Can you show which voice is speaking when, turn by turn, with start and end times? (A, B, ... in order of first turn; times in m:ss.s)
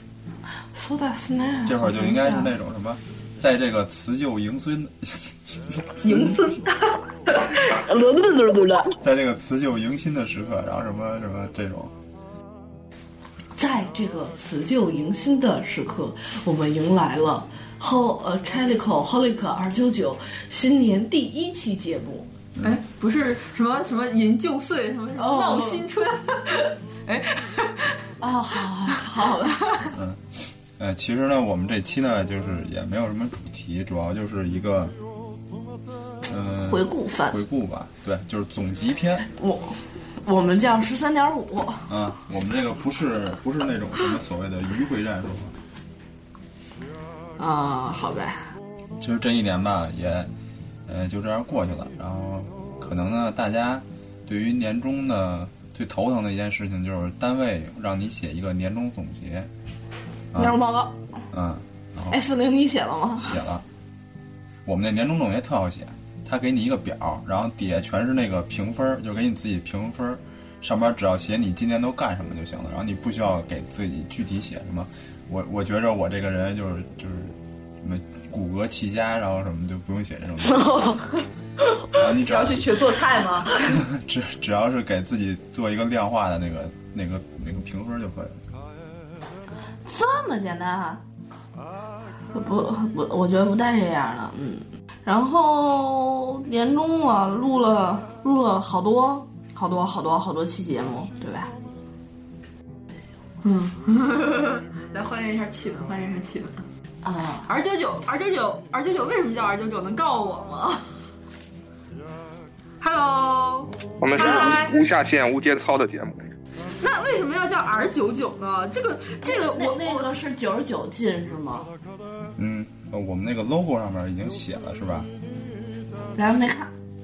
0:00.8-0:02.5 A
0:01.6-0:06.4 B
0:06.0-0:08.9 C
0:09.0-0:11.9 B
0:13.6-0:22.3 A
0:22.5-0:22.8 B
0:22.6-0:28.0 D
0:25.2-0:25.8 A
0:28.2-0:29.9 A
0:29.9-0:35.0 B
0:36.3-0:39.3 B
0:36.6-0:37.4 A
0:39.3-0:41.9 A
0:41.9-0:45.6 B
0:47.4-0:48.4 A
0:49.0-0:50.3 B
0:50.8-0:59.5 B
1:00.3-1:00.6 B
1:00.4-1:01.0 A
1:01.3-1:02.2 B
1:02.1-1:03.4 A
1:03.2-1:03.6 B
1:04.6-1:20.7 B
1:20.4-1:23.8 C
1:21.9-1:22.8 B
1:23.6-1:28.4 B
1:29.8-1:31.0 A
1:32.3-1:41.5 A
1:43.4-1:46.6 D
1:47.0-1:47.5 A
1:47.5-1:50.8 D
1:52.8-1:53.7 D
1:54.0-1:56.2 E
1:56.8-2:00.1 D
1:59.2-2:01.7 A
2:02.4-2:05.1 B
2:06.2-2:06.7 A